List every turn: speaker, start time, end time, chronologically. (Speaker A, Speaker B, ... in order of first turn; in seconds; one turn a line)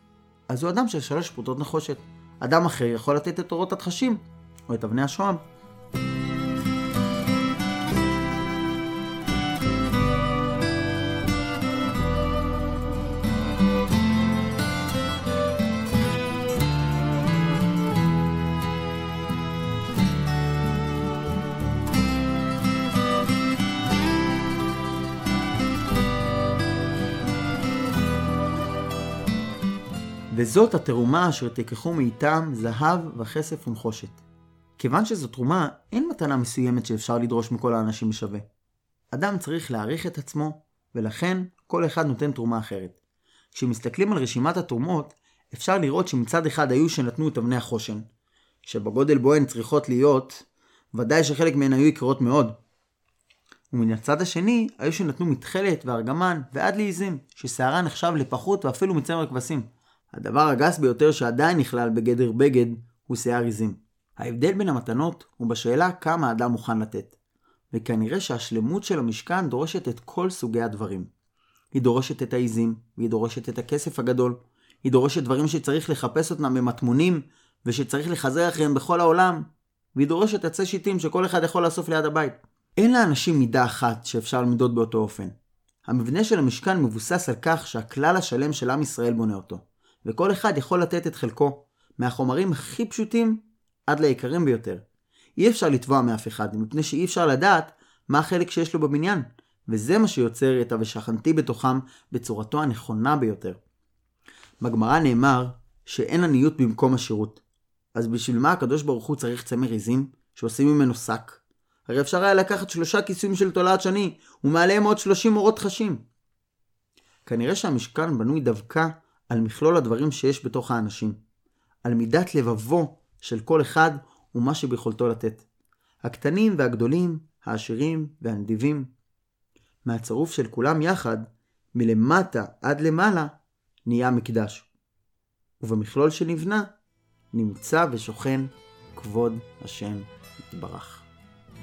Speaker A: 0.5-5.4
Speaker A: 30.3-34.2
Speaker A: 34.8-38.4
Speaker A: 39.1-43.0
Speaker A: 43.5-48.0
Speaker A: 48.6-52.5
Speaker A: 53.7-67.2
Speaker A: 67.7-71.1
Speaker A: 71.7-85.3
Speaker A: 85.8-94.8
Speaker A: 95.4-103.6
Speaker A: 104.6-107.4
Speaker A: 107.9-116.0
Speaker A: 117.2-121.2
Speaker A: 121.8-125.4
Speaker A: 126.0-128.9
Speaker A: 129.8-133.3
Speaker A: 133.8-134.7
Speaker A: 135.6-136.7
Speaker A: 137.3-141.1